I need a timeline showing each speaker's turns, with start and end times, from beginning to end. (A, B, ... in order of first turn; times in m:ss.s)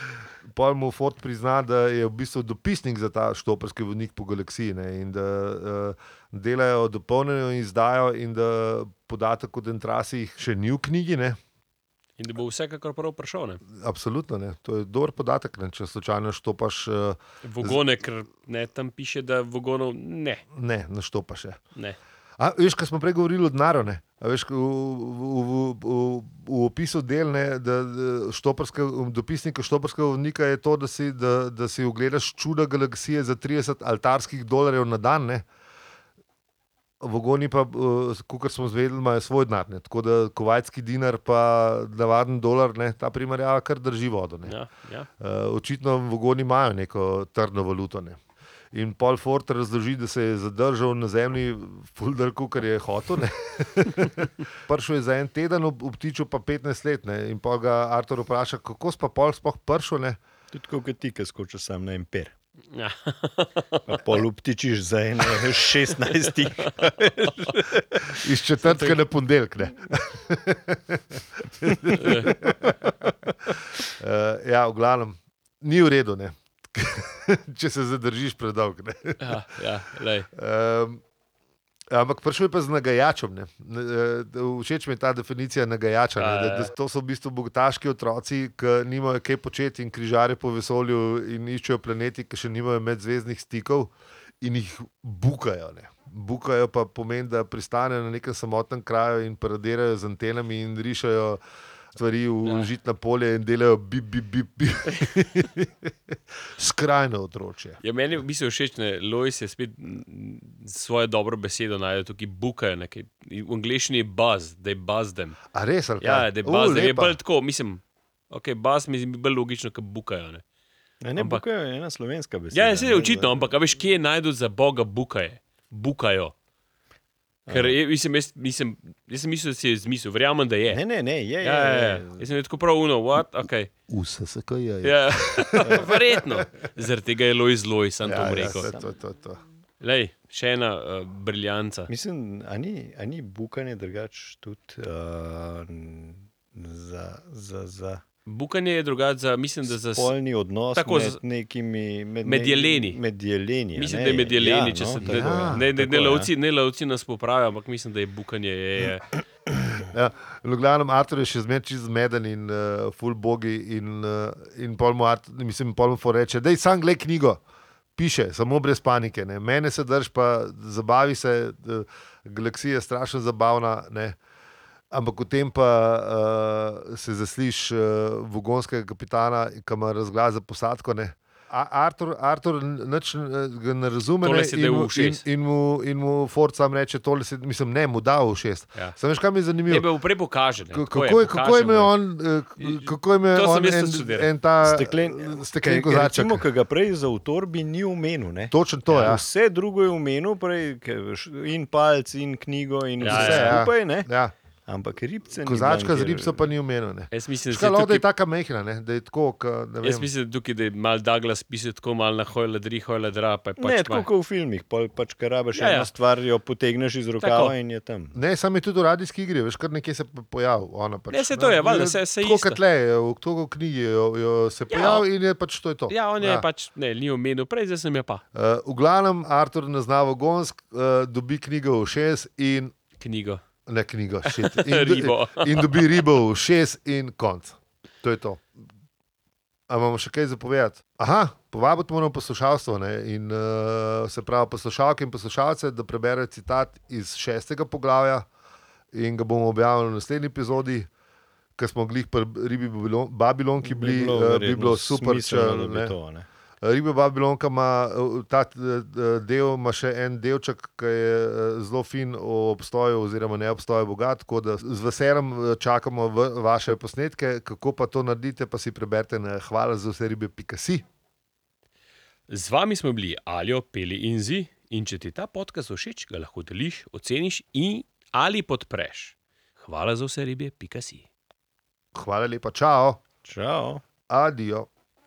0:00.5-0:11.4 A
0:12.2-0:13.6 B
0:13.7-0:17.8 A
0:17.4-0:20.4 B
0:20.5-0:21.6 A
0:22.4-0:35.5 A
0:37.0-0:44.6 A
0:44.5-0:45.1 B
0:45.2-0:48.2 A
0:48.7-1:00.2 A
1:00.5-1:02.3 C
1:02.7-1:04.1 B
1:03.9-1:08.2 C
1:07.2-1:07.5 B
1:08.2-1:19.4 A
1:08.7-1:09.0 B
1:11.9-1:12.5 B
1:19.2-1:20.3 B
1:20.3-1:21.0 A
1:21.9-1:41.4 A
1:26.2-1:26.7 B
1:41.9-1:47.8 A
1:47.8-1:55.4 B
1:55.5-1:57.2 A
1:56.0-2:00.4 B
2:01.0-2:03.5 C
2:01.2-2:01.4 B
2:02.5-2:06.3 B
2:07.5-2:07.8 C
2:07.5-2:10.8 B
2:10.7-2:12.3 C
2:11.4-2:13.7 B
2:13.9-2:16.2 A
2:14.8-2:18.7 B
2:18.0-2:19.4 A
2:18.3-2:19.0 C
2:19.8-2:21.9 B
2:21.9-2:28.0 C
2:28.3-2:30.1 B
2:29.7-2:36.3 C
2:30.8-2:31.2 B
2:32.2-2:33.0 B
2:33.8-2:39.1 B
2:35.0-2:35.7 A
2:39.9-2:47.4 A
2:48.0-2:54.2 A
2:54.9-3:09.9 A
3:04.2-3:05.2 B
3:09.7-3:11.9 B
3:10.7-3:16.5 A
3:12.6-3:14.3 B
3:14.6-3:24.1 C
3:18.5-3:19.2 A
3:18.9-3:19.2 B
3:23.0-3:23.6 B
3:23.0-3:24.3 A
3:24.7-3:26.4 C
3:25.4-3:30.1 A
3:27.1-3:28.0 B
3:29.8-3:34.1 B
3:33.6-3:38.2 C
3:35.5-3:35.9 B
3:37.2-3:37.5 B
3:38.1-3:46.5 A
3:41.1-3:42.6 B
3:44.7-3:45.0 B
3:45.9-3:48.2 B
3:48.3-3:52.7 A
3:53.0-3:53.4 B
3:53.7-3:58.5 A
3:54.2-3:55.8 B
3:59.7-4:08.3 A
4:08.9-4:10.9 A
4:11.6-4:16.0 A
4:13.6-4:16.3 C
4:16.6-4:30.8 A
4:32.3-4:41.1 B
4:41.9-4:43.0 A
4:43.2-4:43.8 C
4:44.1-4:44.7 A